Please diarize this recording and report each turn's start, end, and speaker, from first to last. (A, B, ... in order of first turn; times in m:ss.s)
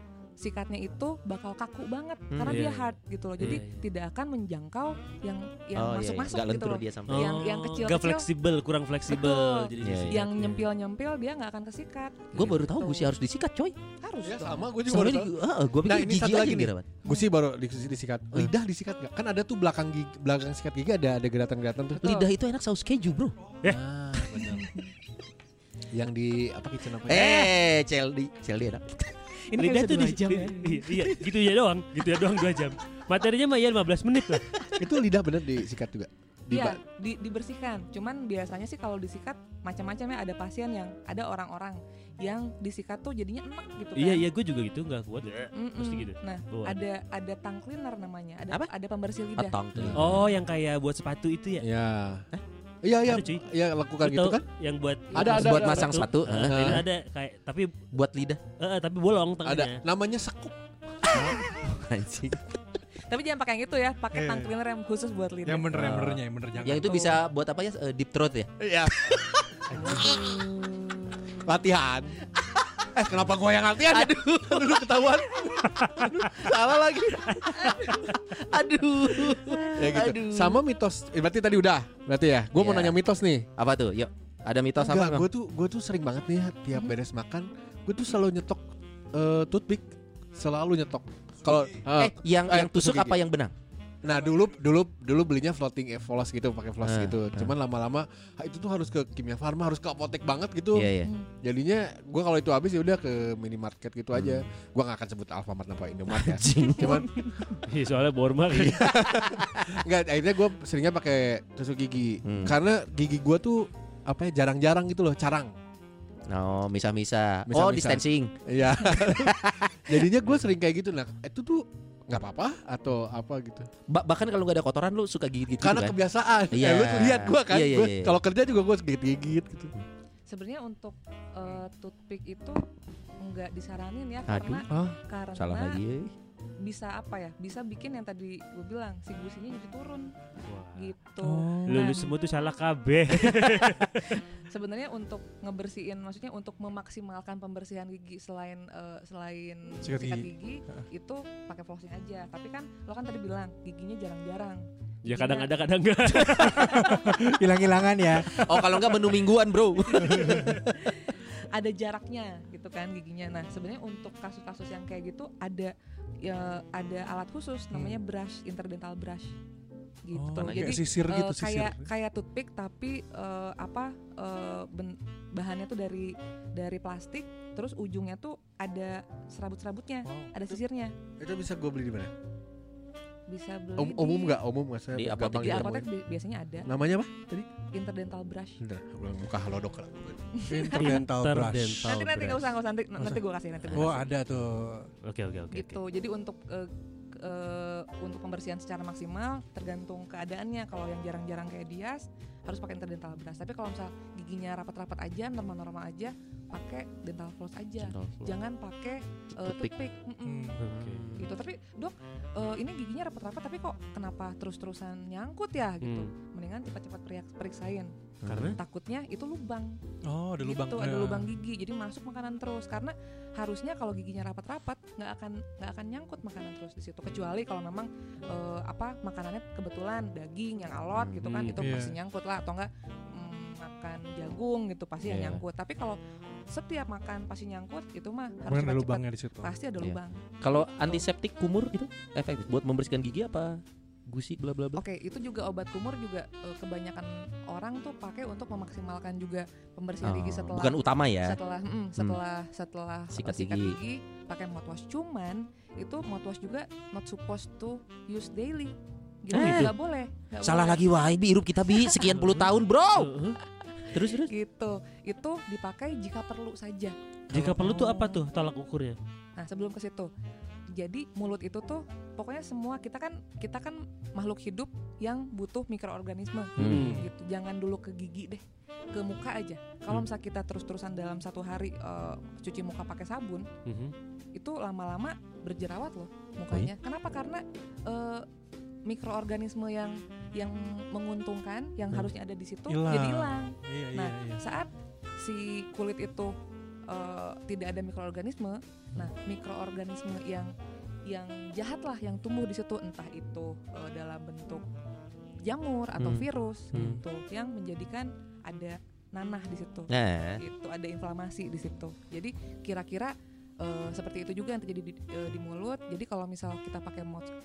0:00.4-0:08.3 A
0:02.3-0:02.6 B
0:02.5-0:03.8 C
0:05.7-0:07.4 B
0:07.1-0:10.7 C
0:09.1-0:13.1 A
0:09.8-0:10.2 B
0:12.3-0:13.8 B
0:14.0-0:14.7 A
0:14.2-0:22.1 D
0:14.8-0:16.9 B
0:22.0-0:23.4 B
0:22.0-0:22.3 A
0:23.6-0:24.4 C
0:23.6-0:24.7 D
0:24.5-0:24.9 A
0:25.9-0:27.5 D
0:27.0-0:30.4 B
0:29.5-0:30.8 A
0:29.5-0:34.5 C
0:34.8-0:36.8 D
0:36.5-0:44.3 A
0:44.0-0:46.8 C
0:45.5-0:49.6 A
0:49.4-0:50.2 B
0:49.8-0:50.2 D
0:49.9-0:51.7 C
0:51.6-0:52.3 D
0:52.8-0:54.4 D
0:53.0-0:53.4 C
0:54.0-0:57.7 C
0:55.1-0:56.8 D
0:55.2-0:56.8 B
0:55.2-0:55.6 A
0:57.9-0:58.4 B
0:58.6-0:59.8 C
0:59.4-1:00.6 D
1:01.1-1:01.4 D
1:01.1-1:02.6 B
1:03.1-1:05.8 A
1:04.1-1:04.5 E
1:05.5-1:07.2 E
1:05.7-1:11.4 B
1:08.6-1:10.5 D
1:11.4-1:12.2 D
1:12.9-1:17.4 D
1:13.9-1:20.6 B
1:15.8-1:16.2 C
1:17.6-1:18.0 A
1:19.8-1:23.5 D
1:22.5-1:23.0 B
1:23.6-1:25.3 B
1:24.8-1:33.2 D
1:31.8-1:33.5 B
1:34.0-1:47.2 D
1:36.8-1:37.6 B
1:40.7-1:41.2 B
1:44.1-1:44.5 B
1:46.1-1:47.1 B
1:46.9-1:47.4 A
1:47.6-1:49.0 C
1:48.5-1:55.6 D
1:48.9-1:49.8 B
1:52.2-1:52.6 B
1:56.3-2:00.1 B
1:57.5-2:03.7 D
2:03.9-2:06.0 B
2:05.6-2:09.7 D
2:06.5-2:08.2 B
2:10.3-2:12.6 A
2:13.2-2:15.8 A
2:14.3-2:16.1 B
2:16.6-2:20.1 A
2:20.5-2:20.9 C
2:20.8-2:22.1 A
2:21.2-2:21.9 E
2:21.7-2:24.2 C
2:24.3-2:35.6 A
2:29.8-2:30.8 E
2:35.1-2:37.2 C
2:36.2-2:37.2 A
2:36.2-2:38.8 E
2:38.4-2:40.7 B
2:40.0-2:49.4 A
2:40.0-2:40.6 E
2:50.0-3:00.9 A
2:50.1-2:51.9 E
2:50.4-2:50.8 B
3:00.0-3:00.3 E
3:01.2-3:02.1 D
3:03.3-3:04.4 A
3:03.8-3:05.8 D
3:04.9-3:05.9 B
3:05.4-3:06.7 A
3:06.7-3:07.5 D
3:07.6-3:08.6 A
3:08.6-3:10.4 D
3:10.3-3:11.0 A
3:10.5-3:11.9 E
3:10.8-3:12.5 C
3:11.8-3:14.1 A
3:13.7-3:14.0 B
3:13.7-3:14.9 E
3:15.0-3:15.8 C
3:15.5-3:30.6 A
3:27.8-3:28.4 B
3:29.4-3:29.7 B
3:30.2-3:30.6 E
3:30.6-3:31.2 C
3:30.7-3:31.3 B
3:31.2-3:37.9 A
3:35.8-3:36.1 C
3:38.2-3:38.6 B
3:38.3-3:38.6 C
3:38.5-3:39.8 A
3:40.0-3:41.3 E
3:40.4-4:01.1 A
3:50.9-3:51.2 B
3:51.2-3:51.6 C
3:51.6-3:52.0 E
3:55.0-3:55.4 B
3:58.5-3:59.6 E
3:59.8-4:04.8 B
4:04.8-4:20.8 A
4:10.0-4:11.4 B
4:12.0-4:12.2 B
4:13.1-4:13.8 B
4:19.3-4:19.8 B
4:19.3-4:19.7 C
4:20.4-4:23.1 B
4:22.0-4:23.4 C
4:23.8-4:27.0 A
4:23.9-4:24.3 B
4:27.3-4:29.0 C
4:27.5-4:28.0 E
4:29.4-4:30.1 A
4:30.7-4:43.5 A
4:36.6-4:37.0 B
4:36.6-4:37.0 C
4:36.7-4:37.1 E
4:43.6-4:43.9 C
4:44.4-4:48.3 A
4:48.9-4:56.4 A
4:52.7-4:54.4 E
4:56.9-5:00.5 A
5:01.1-5:04.7 A
5:05.4-5:17.3 A
5:06.0-5:07.0 B
5:06.7-5:07.0 E
5:09.9-5:10.4 B